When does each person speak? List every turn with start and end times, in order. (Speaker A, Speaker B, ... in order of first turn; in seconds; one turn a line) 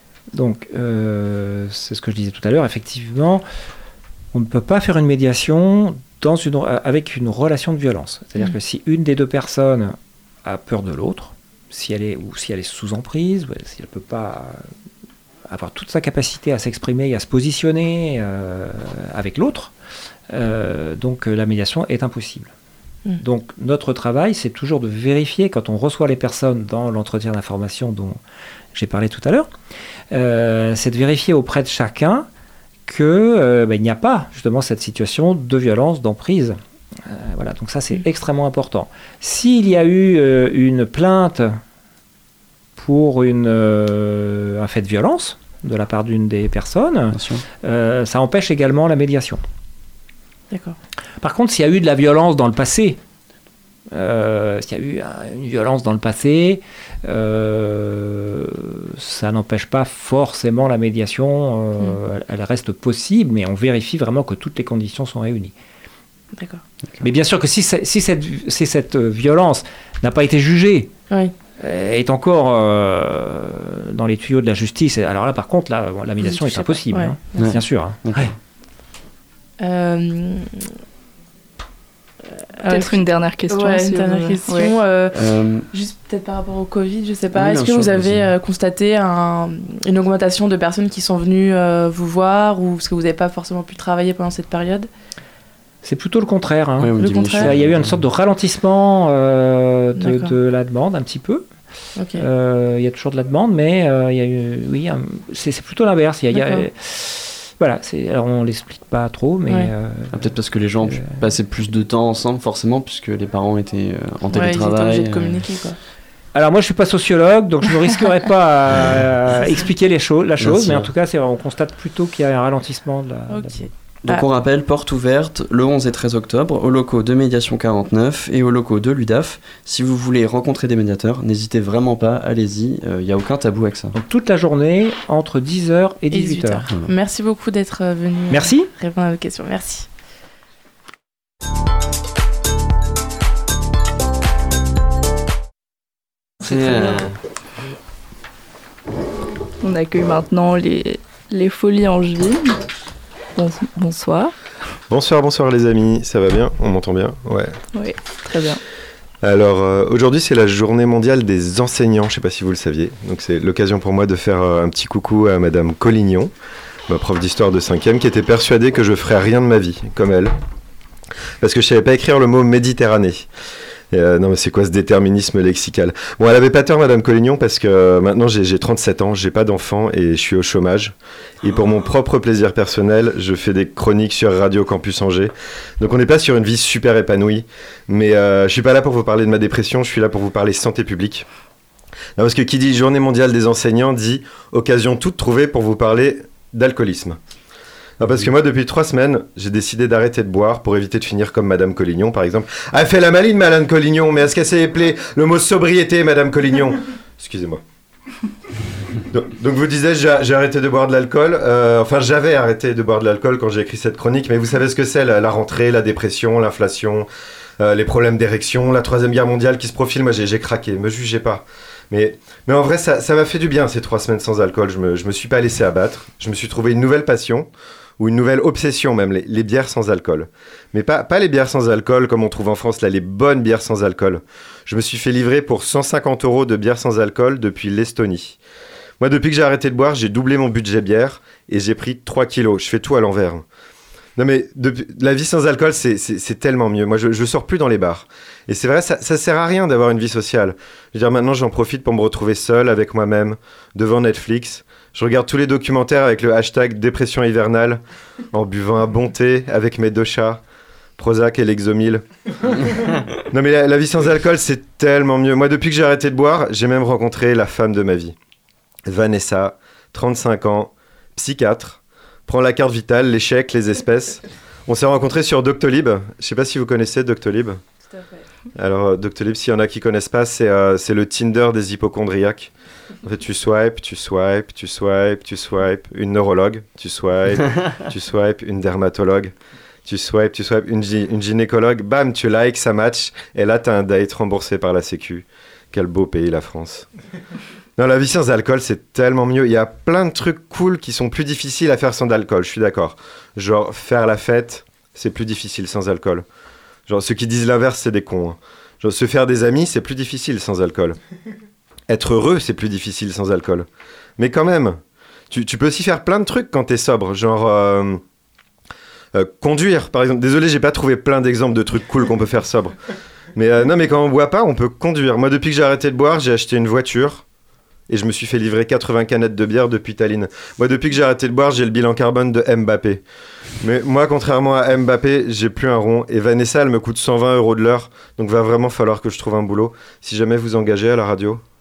Speaker A: 0.3-3.4
Speaker A: 4.3-14.6
Speaker A: 15.5-19.7
Speaker A: 20.3-22.5
Speaker A: 23.2-28.2
Speaker A: 28.7-29.5
Speaker A: 30.1-32.3
Speaker A: 32.9-41.6
Speaker A: 42.8-49.4
Speaker B: 47.1-47.4
Speaker C: 50.5-50.8
Speaker A: 51.2-53.0
Speaker A: 53.9-65.5
Speaker C: 66.4-66.6
Speaker A: 67.0-70.9
Speaker A: 71.6-78.3
Speaker C: 76.2-77.5
Speaker B: 77.4-78.3
Speaker C: 79.6-80.6
Speaker C: 82.6-85.2
Speaker D: 82.6-84.7
Speaker B: 85.1-85.7
Speaker C: 85.7-94.9
Speaker B: 87.3-88.3
Speaker A: 95.8-101.5
Speaker B: 96.8-98.0
Speaker C: 97.0-97.5
Speaker C: 100.0-100.3
Speaker C: 102.0-102.3
Speaker A: 102.2-110.3
Speaker C: 106.3-106.7
Speaker B: 110.1-115.5
Speaker A: 110.8-111.2
Speaker C: 114.3-115.8
Speaker A: 116.3-123.7
Speaker B: 120.4-120.9
Speaker C: 123.3-124.2
Speaker B: 124.0-133.9
Speaker A: 133.9-136.7
Speaker C: 136.1-139.9
Speaker A: 138.3-138.7
Speaker B: 146.4-147.1
Speaker D: 149.6-152.6
Speaker D: 153.4-154.3
Speaker E: 154.9-157.5
Speaker D: 157.8-158.6
Speaker E: 159.2-166.3
Speaker E: 166.9-170.3
Speaker E: 171.4-173.3
Speaker E: 173.9-191.3
Speaker E: 192.2-197.2
Speaker E: 198.0-207.6
Speaker E: 209.1-217.1
Speaker E: 217.6-227.5
Speaker E: 228.0-238.4
Speaker E: 239.0-243.4
Speaker E: 244.2-257.8
Speaker E: 258.3-260.4
Speaker E: 261.0-262.0
Speaker E: 263.3-268.1
Speaker E: 268.9-277.6
Speaker C: 277.9-278.2
Speaker E: 278.6-282.5
Speaker E: 283.0-289.3
Speaker E: 289.9-296.9
Speaker E: 297.8-306.2
Speaker E: 306.9-311.0
Speaker E: 311.9-313.7
Speaker E: 314.2-314.8
Speaker E: 315.3-318.0
Speaker E: 319.1-322.8
Speaker E: 323.4-327.2
Speaker E: 327.9-333.0
Speaker E: 333.6-341.4